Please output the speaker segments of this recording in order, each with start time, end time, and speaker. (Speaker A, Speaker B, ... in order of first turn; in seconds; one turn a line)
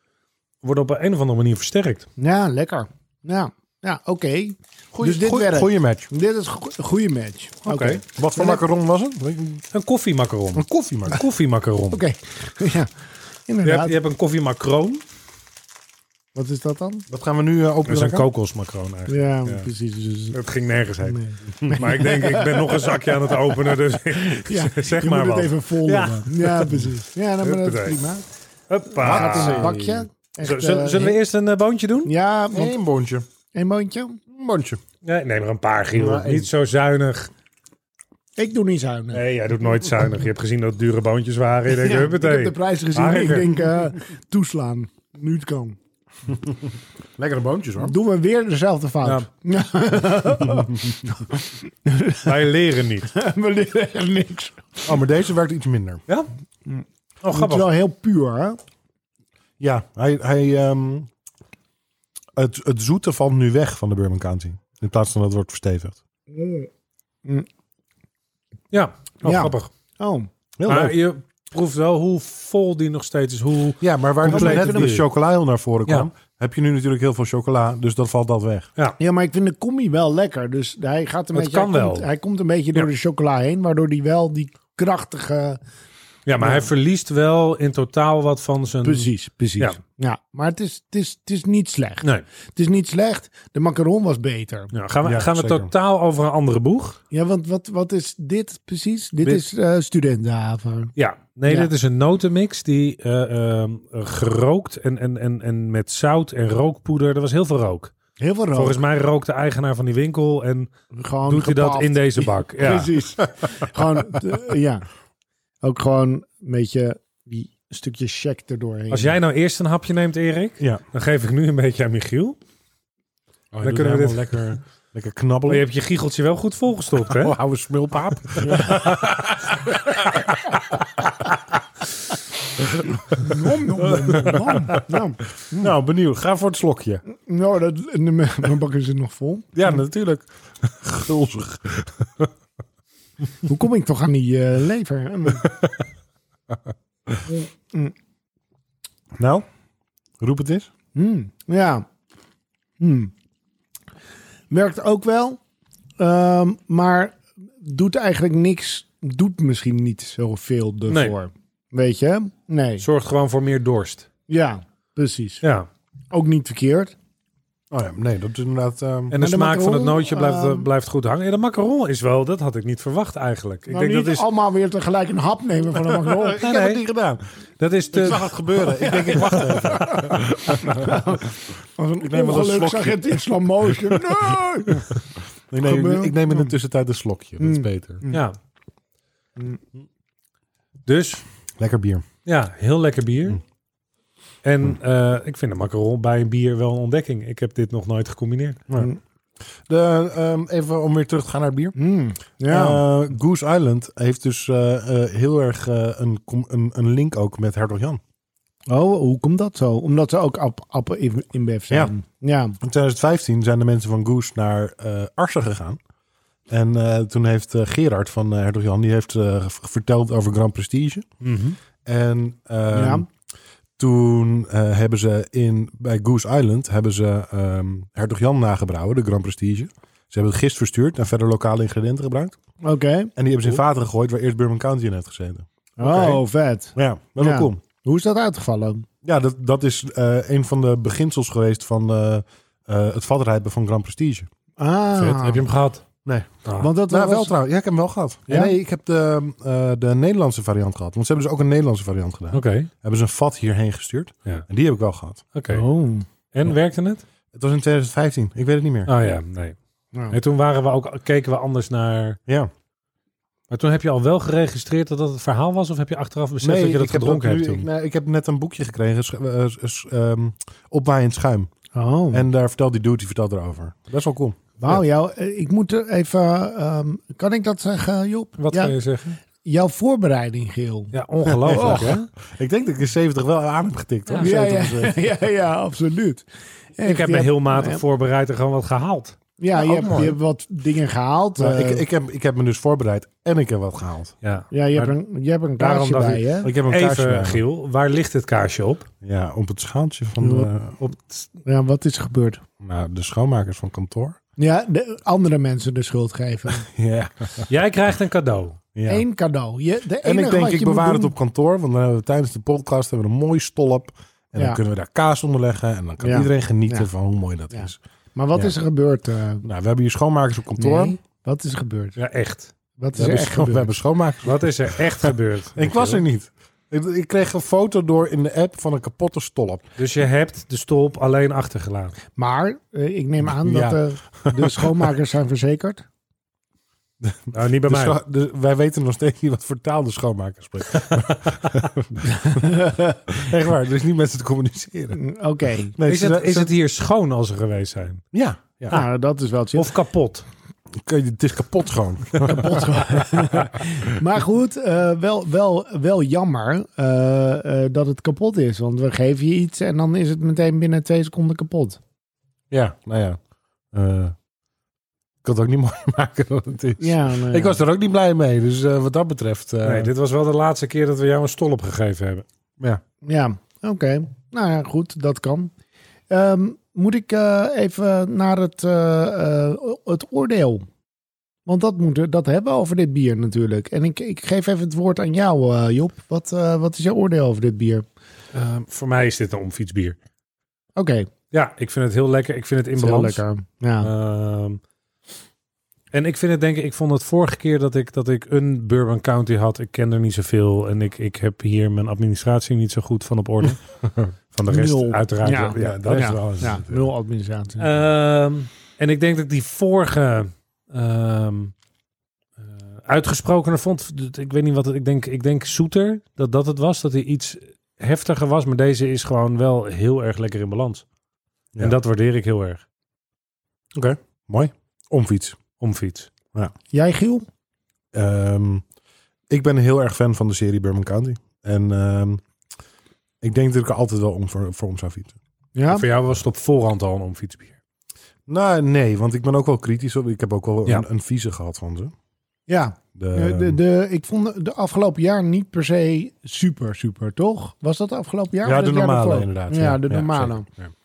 Speaker A: 0.6-2.1
Speaker B: 2.2-8.6
Speaker C: 4.9-6.1
Speaker A: 7.7-8.0
Speaker C: 8.1-9.7
Speaker A: 9.7-12.0
Speaker C: 10.5-11.2
Speaker B: 11.9-12.9
Speaker B: 13.5-14.0
Speaker A: 13.6-15.0
Speaker B: 16.4-17.0
Speaker C: 17.1-18.3
Speaker A: 17.9-19.7
Speaker B: 19.1-20.4
Speaker A: 20.3-28.0
Speaker B: 21.0-28.2
Speaker A: 28.7-29.7
Speaker B: 29.0-31.2
Speaker C: 29.0-30.1
Speaker A: 30.4-32.1
Speaker B: 32.0-32.8
Speaker C: 32.5-33.3
Speaker B: 33.5-34.2
Speaker C: 34.3-34.8
Speaker A: 35.0-37.3
Speaker C: 35.9-36.5
Speaker B: 38.4-39.2
Speaker A: 39.1-43.6
Speaker B: 41.7-45.8
Speaker C: 46.3-48.0
Speaker B: 47.8-52.4
Speaker A: 52.2-53.1
Speaker B: 53.1-55.0
Speaker C: 54.9-56.0
Speaker B: 56.7-58.6
Speaker A: 57.2-57.7
Speaker C: 59.6-61.1
Speaker C: 62.4-66.0
Speaker B: 66.3-66.7
Speaker A: 68.7-69.7
Speaker B: 69.2-70.3
Speaker C: 70.6-71.0
Speaker A: 70.7-75.0
Speaker C: 73.8-78.7
Speaker B: 74.2-75.0
Speaker B: 79.0-85.6
Speaker A: 81.3-82.1
Speaker A: 86.3-89.8
Speaker B: 86.4-86.7
Speaker B: 88.8-94.7
Speaker A: 94.7-97.0
Speaker C: 95.0-95.7
Speaker B: 97.1-100.9
Speaker A: 101.0-107.9
Speaker B: 108.2-108.8
Speaker A: 108.5-110.7
Speaker B: 110.9-114.8
Speaker A: 111.3-113.0
Speaker B: 115.6-119.2
Speaker A: 118.9-122.4
Speaker C: 123.5-125.7
Speaker A: 123.6-124.5
Speaker A: 125.5-127.4
Speaker C: 127.1-130.5
Speaker A: 128.5-129.0
Speaker C: 132.6-134.8
Speaker B: 133.1-135.7
Speaker C: 135.5-137.0
Speaker B: 137.1-139.6
Speaker C: 139.5-142.3
Speaker B: 143.4-145.5
Speaker C: 145.4-145.7
Speaker B: 147.3-147.9
Speaker C: 149.2-149.4
Speaker C: 150.2-150.7
Speaker B: 150.9-151.8
Speaker B: 152.8-153.1
Speaker B: 154.5-155.4
Speaker B: 156.0-162.8
Speaker A: 160.9-161.1
Speaker A: 162.8-164.1
Speaker B: 164.3-165.4
Speaker A: 165.4-165.7
Speaker B: 166.1-166.9
Speaker C: 167.7-169.1
Speaker A: 169.1-174.3
Speaker B: 169.2-170.7
Speaker B: 173.7-176.4
Speaker C: 175.9-177.2
Speaker A: 176.4-176.8
Speaker A: 177.6-178.4
Speaker C: 177.9-181.2
Speaker B: 178.8-185.0
Speaker C: 182.0-184.8
Speaker C: 185.5-188.0
Speaker B: 185.6-186.5
Speaker B: 187.4-188.2
Speaker A: 188.1-188.3
Speaker A: 190.9-191.2
Speaker C: 191.6-192.1
Speaker A: 192.2-193.4
Speaker A: 194.4-198.6
Speaker C: 199.7-201.8
Speaker B: 201.8-202.8
Speaker C: 202.5-208.0
Speaker B: 208.7-212.6
Speaker C: 212.6-215.8
Speaker C: 216.5-221.1
Speaker A: 221.2-221.6
Speaker C: 221.8-223.1
Speaker B: 222.7-223.1
Speaker C: 223.8-232.4
Speaker B: 232.6-233.1
Speaker C: 233.2-236.2
Speaker B: 235.8-238.9
Speaker C: 236.8-237.6
Speaker C: 239.0-244.3
Speaker B: 244.6-245.4
Speaker A: 244.9-245.8
Speaker C: 246.1-255.2
Speaker A: 246.5-246.7
Speaker B: 246.6-247.3
Speaker B: 248.3-248.5
Speaker A: 252.3-252.7
Speaker A: 255.3-255.7
Speaker B: 255.5-256.1
Speaker A: 256.3-257.0
Speaker C: 257.3-258.9
Speaker A: 258.9-259.6
Speaker A: 260.1-262.2
Speaker A: 263.5-267.7
Speaker C: 266.4-271.5
Speaker B: 271.7-272.2
Speaker C: 272.1-274.7
Speaker B: 274.6-278.8
Speaker A: 278.4-279.2
Speaker B: 279.4-280.9
Speaker A: 280.9-282.1
Speaker C: 281.2-285.0
Speaker B: 281.5-282.0
Speaker B: 284.2-286.2
Speaker B: 286.8-287.8
Speaker A: 286.9-289.2
Speaker B: 289.4-291.8
Speaker C: 289.6-290.2
Speaker C: 291.4-294.1
Speaker A: 294.2-294.9
Speaker B: 294.5-296.5
Speaker A: 295.6-298.9
Speaker C: 296.4-297.4
Speaker C: 299.0-301.0
Speaker B: 300.2-300.5
Speaker B: 301.4-302.4
Speaker C: 302.6-304.2
Speaker B: 304.4-306.7
Speaker C: 306.6-307.5
Speaker A: 307.5-308.6
Speaker C: 308.8-309.0
Speaker B: 308.9-311.1
Speaker C: 310.0-317.8
Speaker B: 316.0-316.9
Speaker B: 317.5-319.4
Speaker C: 319.4-321.0
Speaker B: 320.6-322.0
Speaker A: 322.0-322.5
Speaker B: 322.8-323.7
Speaker C: 322.9-329.6
Speaker A: 324.2-326.0
Speaker A: 329.8-332.0
Speaker B: 332.2-335.9
Speaker C: 333.4-334.9
Speaker C: 337.0-342.5
Speaker A: 337.3-338.0
Speaker B: 342.0-343.0
Speaker C: 343.1-345.0
Speaker B: 344.9-345.8
Speaker C: 345.8-346.5
Speaker A: 345.9-348.0
Speaker C: 348.1-348.8
Speaker B: 348.7-349.7
Speaker A: 349.6-350.2
Speaker C: 350.8-352.7
Speaker B: 352.2-361.8
Speaker C: 362.5-363.2
Speaker C: 363.7-364.1
Speaker C: 365.2-369.9
Speaker B: 366.8-367.6
Speaker A: 369.6-372.2
Speaker B: 373.0-375.5
Speaker B: 376.1-380.7
Speaker B: 381.5-387.9
Speaker A: 388.3-390.0
Speaker B: 390.8-391.1
Speaker A: 391.3-393.2
Speaker B: 392.8-393.9
Speaker A: 393.8-394.6
Speaker A: 395.9-403.8
Speaker C: 403.8-404.1
Speaker A: 404.3-406.2
Speaker B: 404.5-407.7
Speaker C: 405.6-406.9
Speaker A: 407.6-411.5
Speaker A: 412.4-420.8
Speaker A: 421.6-422.6
Speaker C: 423.7-425.4
Speaker A: 425.6-426.1
Speaker B: 426.7-427.3
Speaker C: 427.9-428.6
Speaker C: 429.3-432.2
Speaker C: 433.2-435.2
Speaker B: 435.6-435.9
Speaker A: 435.7-437.6
Speaker C: 438.3-441.9
Speaker B: 442.5-450.5
Speaker C: 443.0-443.6
Speaker C: 448.4-450.7